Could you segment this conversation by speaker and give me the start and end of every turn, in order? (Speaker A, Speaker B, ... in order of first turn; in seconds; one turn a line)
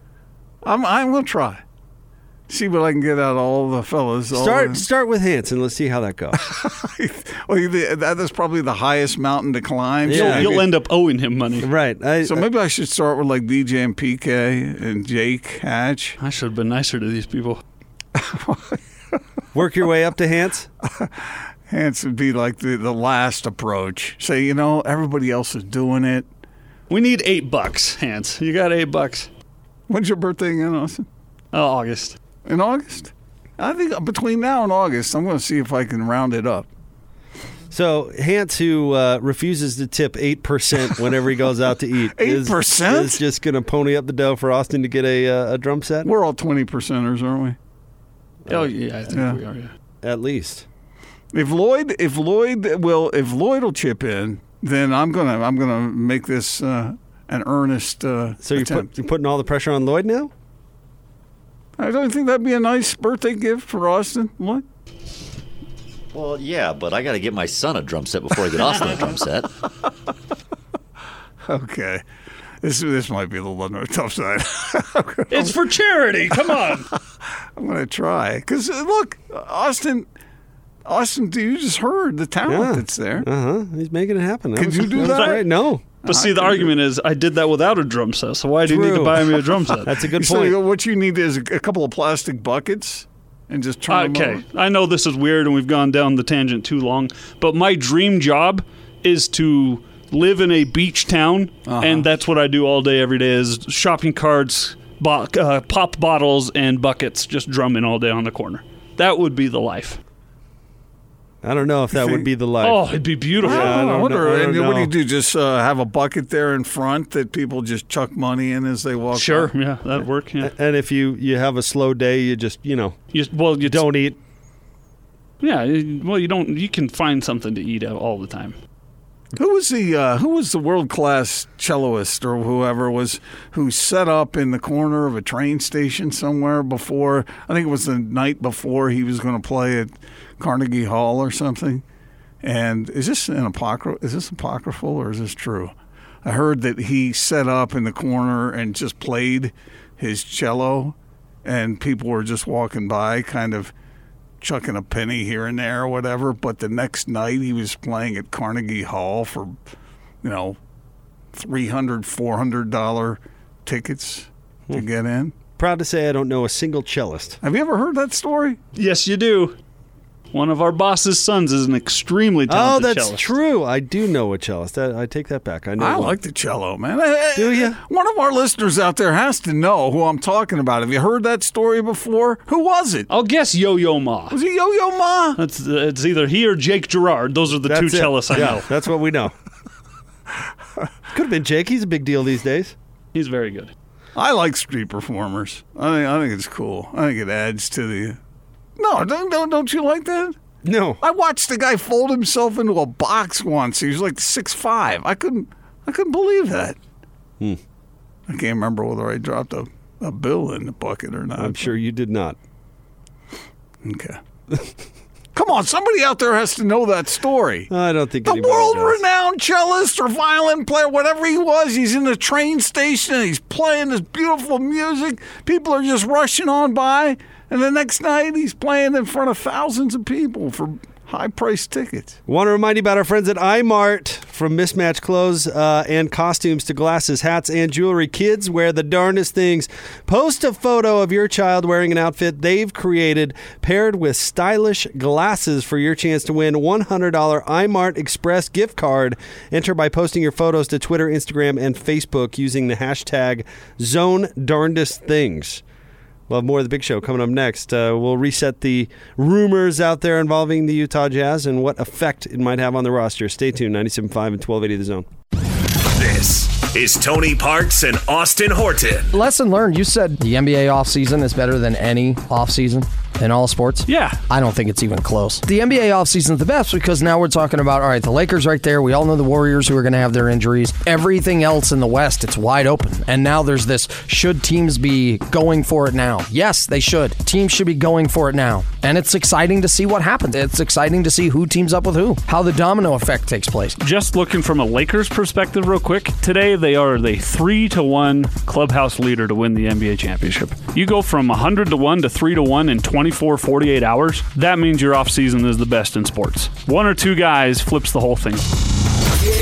Speaker A: 0.6-1.6
Speaker A: 2.5-4.8
Speaker B: 4.3-6.4
Speaker A: 6.4-10.7
Speaker B: 10.0-10.6
Speaker C: 10.1-11.7
Speaker B: 11.6-12.4
Speaker A: 12.2-16.2
Speaker C: 16.2-17.6
Speaker A: 18.1-18.8
Speaker B: 19.5-20.7
Speaker A: 21.7-26.3
Speaker C: 26.9-29.3
Speaker A: 29.9-31.1
Speaker C: 31.5-32.2
Speaker A: 32.4-36.7
Speaker B: 37.7-46.1
Speaker A: 42.1-43.2
Speaker A: 46.0-47.6
Speaker B: 48.5-48.7
Speaker C: 48.5-49.7
Speaker A: 49.1-49.4
Speaker B: 50.0-50.6
Speaker A: 51.3-58.9
Speaker B: 58.4-60.3
Speaker A: 61.8-64.6
Speaker D: 66.1-69.5
Speaker A: 71.5-72.0
Speaker A: 72.6-75.6
Speaker C: 75.3-76.9
Speaker A: 76.3-76.8
Speaker A: 77.5-80.1
Speaker A: 80.8-83.3
Speaker B: 82.5-85.8
Speaker A: 84.6-85.4
Speaker C: 85.0-85.4
Speaker C: 86.0-89.9
Speaker A: 86.0-86.7
Speaker B: 88.6-90.6
Speaker A: 90.1-94.4
Speaker C: 93.9-110.0
Speaker A: 101.7-102.1
Speaker B: 111.4-114.9
Speaker A: 111.9-112.2
Speaker C: 112.6-114.2
Speaker A: 113.4-119.5
Speaker C: 119.1-120.5
Speaker B: 120.4-123.0
Speaker C: 123.1-123.9
Speaker B: 123.6-124.2
Speaker C: 125.4-128.6
Speaker A: 129.3-141.8
Speaker A: 142.4-153.7
Speaker A: 154.4-159.6
Speaker A: 160.2-160.6
Speaker A: 161.3-165.3
Speaker B: 165.6-167.4
Speaker A: 167.4-168.6
Speaker C: 168.7-169.6
Speaker C: 170.3-173.3
Speaker B: 172.5-176.2
Speaker A: 175.8-183.1
Speaker B: 177.3-177.8
Speaker C: 183.1-184.4
Speaker A: 184.3-185.4
Speaker C: 185.4-188.7
Speaker B: 187.6-189.3
Speaker B: 191.1-192.7
Speaker C: 193.1-193.7
Speaker A: 194.1-198.2
Speaker A: 198.8-200.3
Speaker B: 200.6-201.0
Speaker A: 201.0-206.8
Speaker A: 208.3-211.7
Speaker B: 211.3-212.4
Speaker A: 213.8-214.2
Speaker A: 215.3-217.7
Speaker B: 217.7-219.0
Speaker A: 218.2-232.2
Speaker B: 232.3-255.6
Speaker B: 256.3-265.1
Speaker E: 265.9-269.1
Speaker F: 269.1-293.8
Speaker C: 273.9-274.2
Speaker C: 293.8-308.5